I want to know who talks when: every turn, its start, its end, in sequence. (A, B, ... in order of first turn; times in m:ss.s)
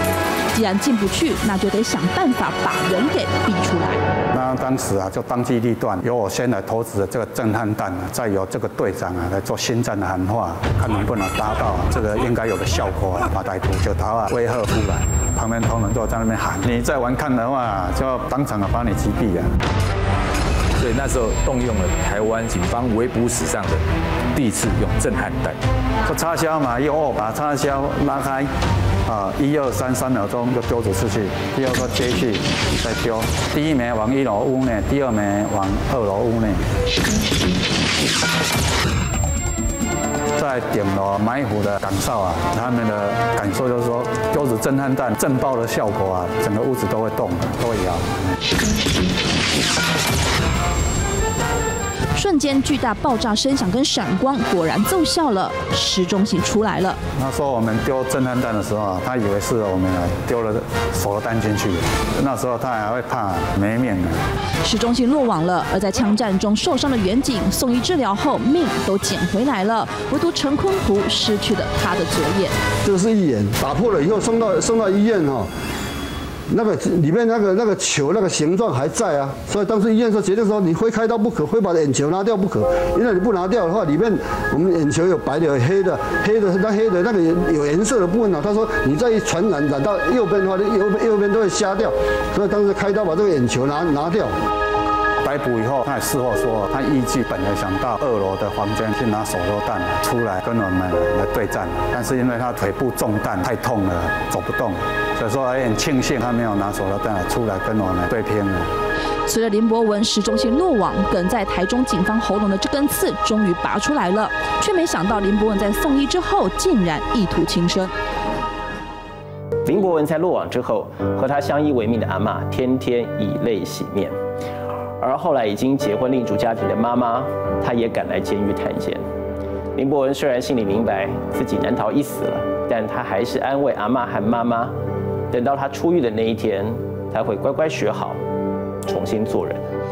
0:00.5-0:04.0 A
0:04.3-0:19.5 B
0:20.8-0:23.8 C
0:24.3-0:25.6 C
0:26.0-0:28.5 B
0:29.0-0:36.7 B
0:40.4-0:48.2 B
0:52.1-0:57.0 A
0:57.1-1:04.2 B
1:04.6-1:12.6 A
1:12.8-1:15.5 D
1:16.5-1:34.4 D
1:35.2-1:48.7 B
1:49.2-1:57.9 A
1:59.6-2:04.2 E
2:05.0-2:09.0 E
2:09.7-2:14.8 E
2:15.3-2:18.2 E
2:18.8-2:19.6 E